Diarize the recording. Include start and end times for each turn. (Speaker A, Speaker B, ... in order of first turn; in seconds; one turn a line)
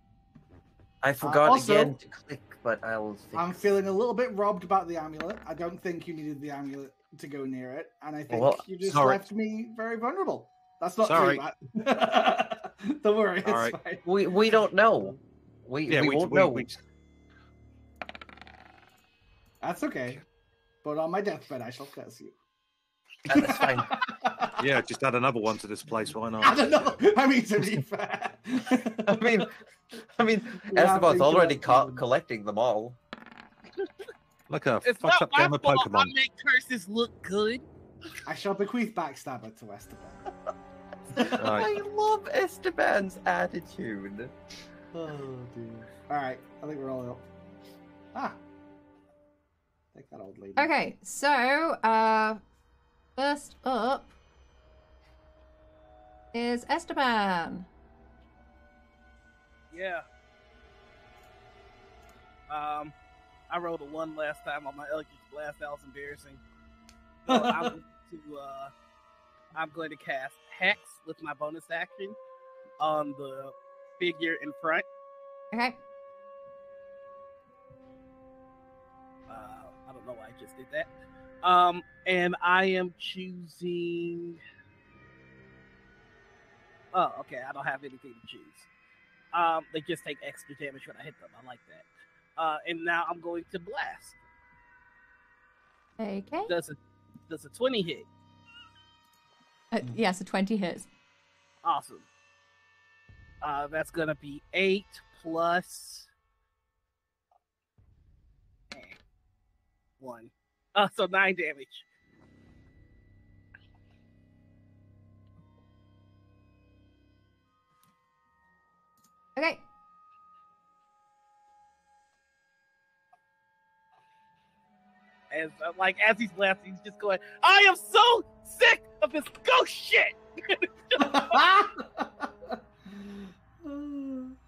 Speaker A: 1.0-3.5
Speaker B: 1.2-1.9
Speaker B: 3.3-15.2
Speaker A: 8.3-8.6
Speaker C: 8.8-9.2
Speaker C: 11.0-11.4
Speaker C: 13.4-13.8
Speaker A: 14.0-16.7
Speaker C: 15.9-16.8
Speaker B: 19.6-20.2
Speaker B: 20.8-22.4
Speaker A: 23.2-24.0
Speaker B: 23.3-24.7
Speaker C: 24.6-26.9
Speaker B: 26.4-29.5
Speaker A: 29.1-29.5
Speaker A: 30.1-33.0
Speaker B: 30.6-32.0
Speaker C: 34.5-36.1
Speaker D: 34.8-37.6
Speaker B: 38.2-40.3
Speaker A: 41.2-44.3
Speaker C: 41.4-41.7
Speaker B: 44.9-47.3
Speaker B: 48.1-48.4
Speaker B: 49.9-50.7
Speaker E: 50.6-52.4
Speaker E: 53.1-54.1
Speaker E: 56.3-57.7
Speaker D: 59.7-60.0
Speaker D: 62.5-62.9
Speaker D: 63.5-66.4
Speaker D: 67.2-68.7
Speaker B: 67.3-67.8
Speaker D: 69.5-72.2
Speaker D: 72.8-74.8
Speaker E: 75.5-75.8
Speaker D: 79.3-80.9
Speaker D: 81.4-84.4
Speaker D: 86.9-88.7
Speaker D: 89.3-94.2
Speaker E: 96.0-96.5
Speaker D: 96.5-96.8
Speaker D: 97.3-98.1
Speaker E: 99.7-100.9
Speaker D: 101.6-102.0
Speaker D: 103.4-106.1
Speaker D: 108.7-109.0
Speaker D: 110.0-111.8
Speaker E: 119.3-119.6
Speaker D: 125.3-131.4
Speaker B: 131.0-134.3